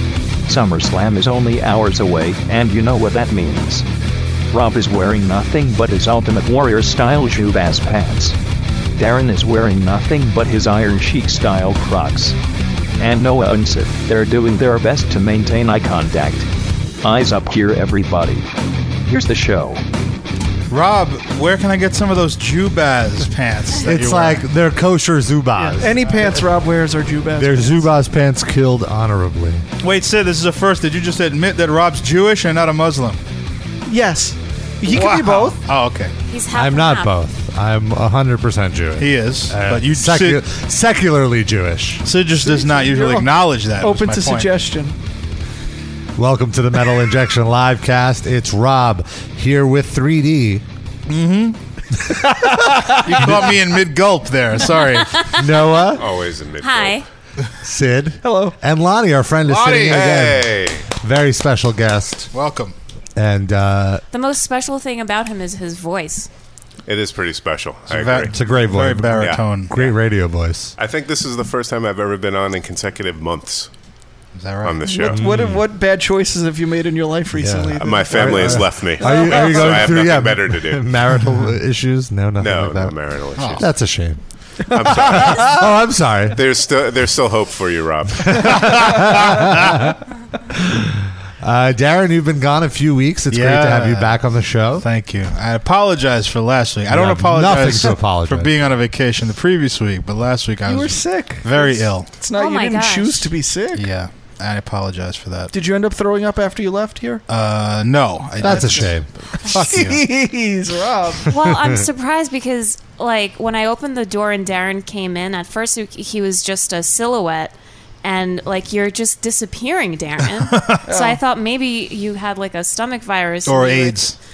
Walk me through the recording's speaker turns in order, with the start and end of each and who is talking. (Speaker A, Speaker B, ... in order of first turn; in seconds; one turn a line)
Speaker A: 0.5-3.9
Speaker A: 4.5-8.4
Speaker A: 9.0-12.4
Speaker A: 13.0-16.5
Speaker A: 17.0-18.5
Speaker A: 19.1-19.8
Speaker B: 20.7-24.4
Speaker C: 23.8-26.0
Speaker D: 25.6-27.9
Speaker C: 27.4-29.6
Speaker B: 29.8-33.2
Speaker D: 33.9-35.6
Speaker B: 34.9-36.1
Speaker E: 36.3-37.1
Speaker C: 36.5-42.0
Speaker B: 39.0-40.4
Speaker B: 42.0-44.5
Speaker D: 42.4-43.3
Speaker D: 43.8-45.0
Speaker C: 46.2-50.6
Speaker B: 51.1-51.6
Speaker C: 52.3-53.5
Speaker B: 52.7-55.2
Speaker E: 54.8-55.4
Speaker C: 55.4-56.0
Speaker F: 56.0-57.0
Speaker E: 56.6-57.0
Speaker C: 57.6-62.3
Speaker D: 58.2-58.5
Speaker B: 59.5-60.1
Speaker F: 59.9-60.8
Speaker B: 62.3-62.7
Speaker C: 63.2-64.0
Speaker E: 64.1-66.3
Speaker F: 66.9-68.3
Speaker B: 67.9-69.7
Speaker C: 68.3-70.7
Speaker F: 69.2-69.9
Speaker F: 70.8-73.7
Speaker B: 74.3-75.6
Speaker F: 74.6-75.2
Speaker D: 75.0-80.0
Speaker C: 75.0-75.5
Speaker C: 77.4-82.9
Speaker F: 77.8-80.8
Speaker F: 82.4-83.7
Speaker B: 83.4-83.7
Speaker C: 83.6-84.2
Speaker F: 84.7-85.6
Speaker C: 84.7-86.4
Speaker F: 86.3-88.8
Speaker C: 88.2-90.0
Speaker C: 90.5-94.8
Speaker B: 93.3-94.2
Speaker B: 94.8-102.1
Speaker C: 96.9-98.5
Speaker D: 100.7-103.9
Speaker E: 102.3-103.3
Speaker B: 103.8-105.5
Speaker D: 105.5-107.2
Speaker B: 107.3-110.1
Speaker C: 108.4-109.1
Speaker D: 108.4-108.9
Speaker D: 109.5-111.3
Speaker E: 111.3-124.0
Speaker B: 120.5-120.9
Speaker D: 120.9-121.2
Speaker B: 123.5-124.2